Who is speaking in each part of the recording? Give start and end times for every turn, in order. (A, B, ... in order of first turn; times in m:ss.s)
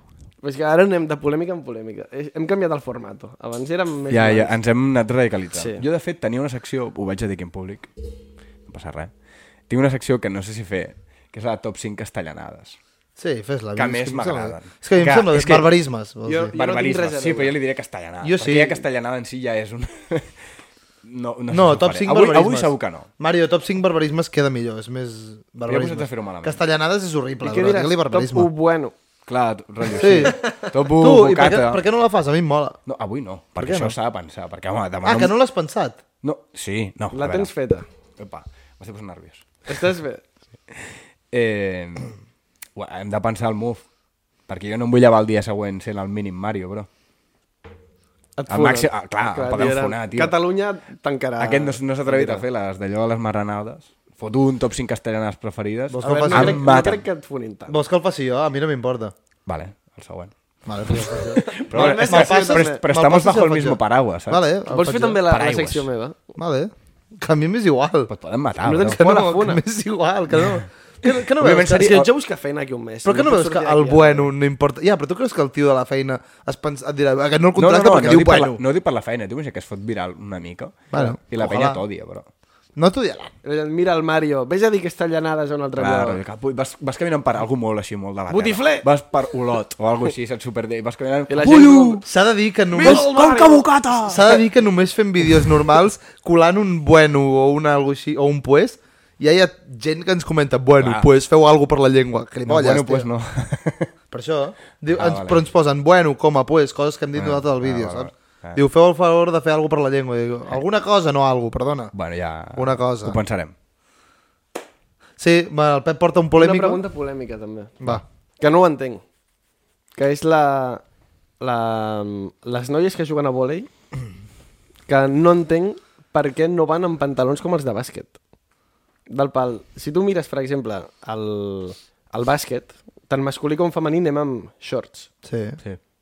0:00.4-0:04.5 A
0:04.1-0:07.9 B
0:05.5-0:05.8 A
0:08.7-0:09.1 B
0:09.7-0:12.8 B
0:13.2-0:16.5 C
0:13.8-0:15.7 B
0:16.2-0:17.6 A
0:16.5-0:20.4 B
0:18.2-0:18.8 C
0:21.0-0:23.1 B
0:21.5-0:28.5 C
0:25.7-0:26.6 B
0:27.4-0:28.9 A
0:29.3-0:31.8 B
0:29.9-0:32.8 C
0:30.4-0:30.7 A
0:32.9-0:35.3 B
0:33.6-0:34.0 C
0:35.0-0:36.0 C
0:36.2-0:37.5 B
0:37.1-0:37.9 A
0:38.2-0:39.6 B
0:39.7-0:40.2 A
0:40.7-0:42.2 B
0:42.8-0:43.8 B
0:44.5-0:46.9 B
0:48.4-0:52.4 A
0:48.5-0:50.4 B
0:51.4-0:57.0 B
0:55.9-0:56.8 C
0:56.0-0:57.8 A
0:57.7-0:59.1 C
0:59.5-1:00.3 B
1:00.7-1:05.2 C
1:01.4-1:02.8 A
1:01.5-1:05.9 B
1:04.7-1:06.2 A
1:06.4-1:08.1 C
1:08.1-1:09.0 B
1:08.6-1:09.6 A
1:08.8-1:12.0 C
1:11.4-1:12.1 B
1:11.6-1:14.3 A
1:13.0-1:18.6 C
1:17.6-1:22.3 B
1:20.9-1:21.8 C
1:22.8-1:23.3 C
1:23.4-1:26.2 A
1:25.8-1:32.0 B
1:28.3-1:28.9 A
1:31.3-1:32.0 A
1:32.0-1:33.1 C
1:32.7-1:33.7 A
1:32.8-1:34.4 B
1:34.0-1:43.1 C
1:40.8-1:41.1 B
1:42.5-1:43.9 B
1:44.1-1:51.9 C
1:44.9-1:45.4 B
1:47.2-1:48.6 B
1:51.9-1:53.5 B
1:52.5-1:53.2 C
1:55.2-1:56.8 C
1:56.4-1:57.8 A
1:58.4-1:59.0 A
2:00.0-2:00.8 A
2:01.4-2:03.7 A
2:04.9-2:08.2 A
2:09.1-2:15.1 A
2:15.2-2:15.6 C